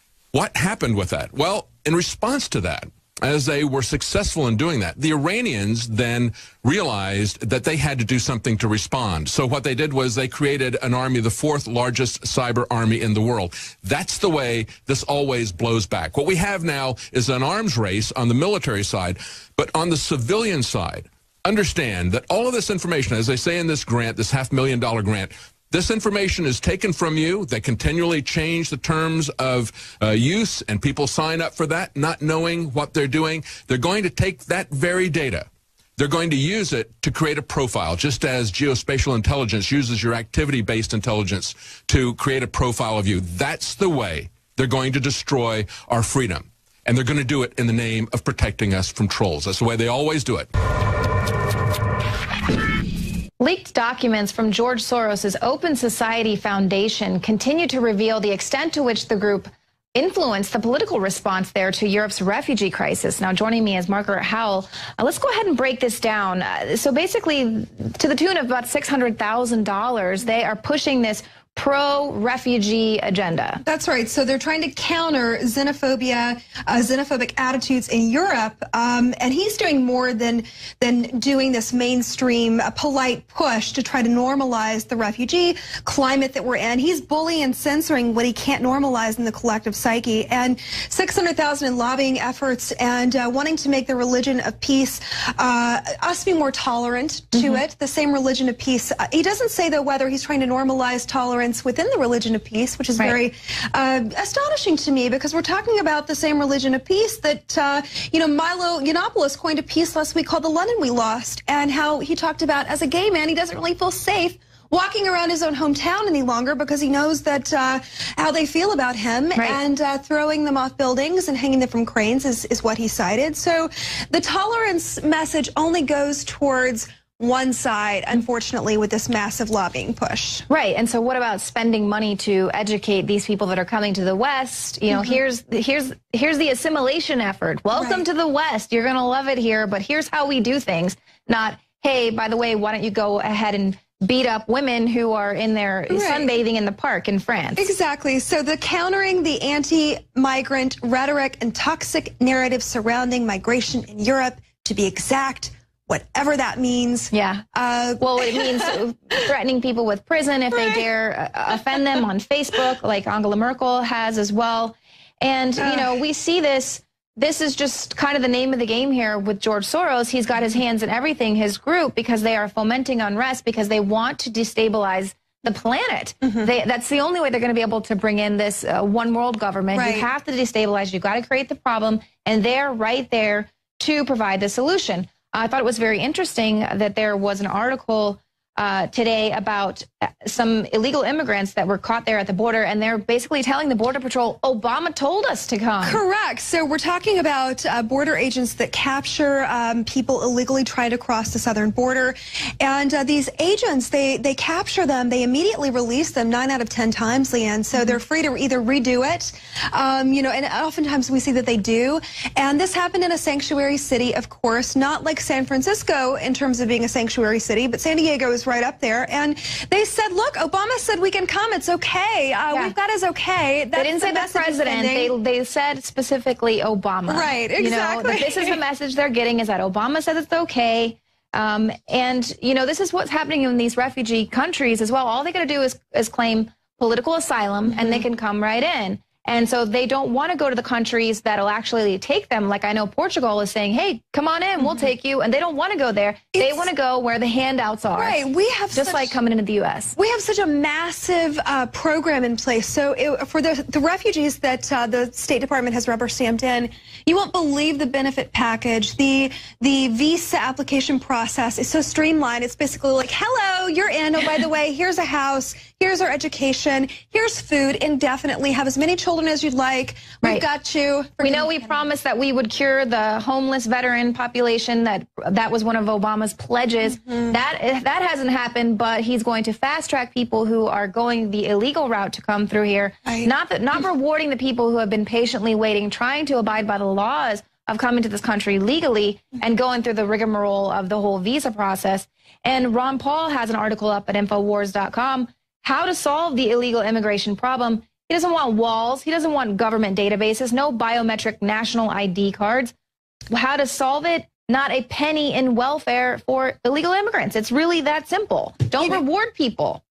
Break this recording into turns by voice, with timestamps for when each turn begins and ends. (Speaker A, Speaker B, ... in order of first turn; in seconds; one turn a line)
Speaker A: 0.3-50.5
Speaker B: 53.4-73.6
Speaker C: 73.6-130.4
Speaker B: 97.3-97.6
Speaker B: 130.5-147.6
Speaker C: 134.9-135.2
Speaker C: 137.7-138.0
Speaker C: 145.9-146.3
Speaker C: 147.6-158.7
Speaker B: 157.1-157.4
Speaker B: 158.0-196.0
Speaker C: 160.5-160.8
Speaker C: 165.6-166.0
Speaker C: 176.2-176.5
Speaker C: 179.7-180.1
Speaker C: 195.8-225.1
Speaker B: 223.7-249.9
Speaker C: 227.1-228.6
Speaker C: 237.7-238.0
Speaker C: 244.6-244.9
Speaker C: 246.3-246.7
Speaker C: 247.9-249.2
Speaker C: 249.9-271.7
Speaker B: 271.2-302.7
Speaker C: 277.0-277.3
Speaker C: 283.1-283.3
Speaker B: 303.3-309.8